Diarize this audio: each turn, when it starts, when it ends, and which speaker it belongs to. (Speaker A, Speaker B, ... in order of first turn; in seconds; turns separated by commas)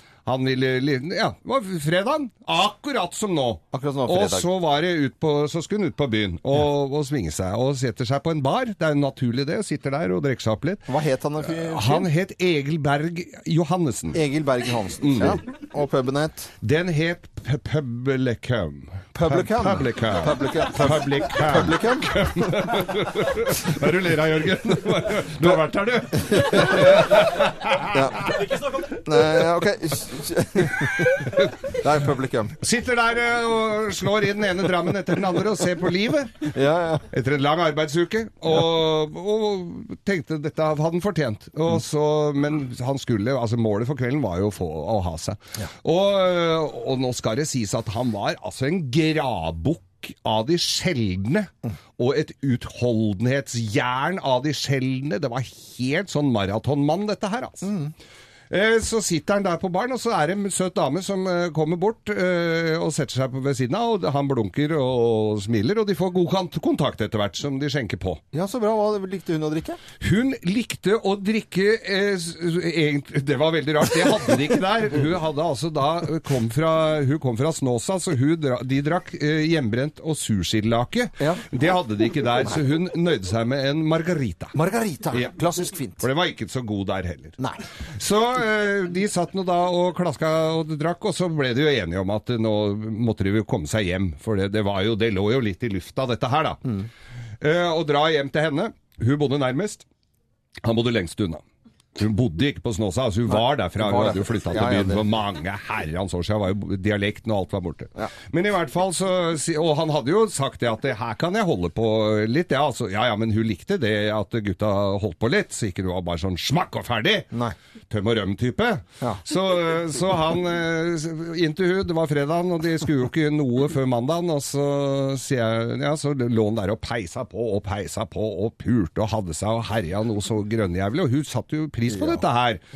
Speaker A: 0.2-10.9, Speaker B: 3.7-4.5, Speaker B: 10.9-12.1, Speaker A: 11.5-14.2, Speaker B: 14.1-16.5, Speaker A: 15.0-15.4, Speaker A: 16.6-28.5, Speaker B: 19.1-22.8, Speaker B: 26.1-27.2, Speaker B: 27.9-32.5, Speaker A: 30.8-31.5, Speaker A: 32.6-36.5, Speaker B: 36.5-37.0, Speaker A: 37.1-57.7, Speaker B: 57.6-57.9, Speaker A: 58.5-68.2, Speaker B: 68.3-69.8, Speaker A: 70.0-84.5, Speaker B: 81.2-81.4, Speaker B: 84.5-86.0, Speaker A: 86.0-87.3, Speaker A: 88.0-96.6, Speaker A: 97.4-99.8, Speaker A: 100.6-101.4, Speaker A: 102.0-117.3, Speaker B: 103.3-105.1, Speaker A: 117.9-132.6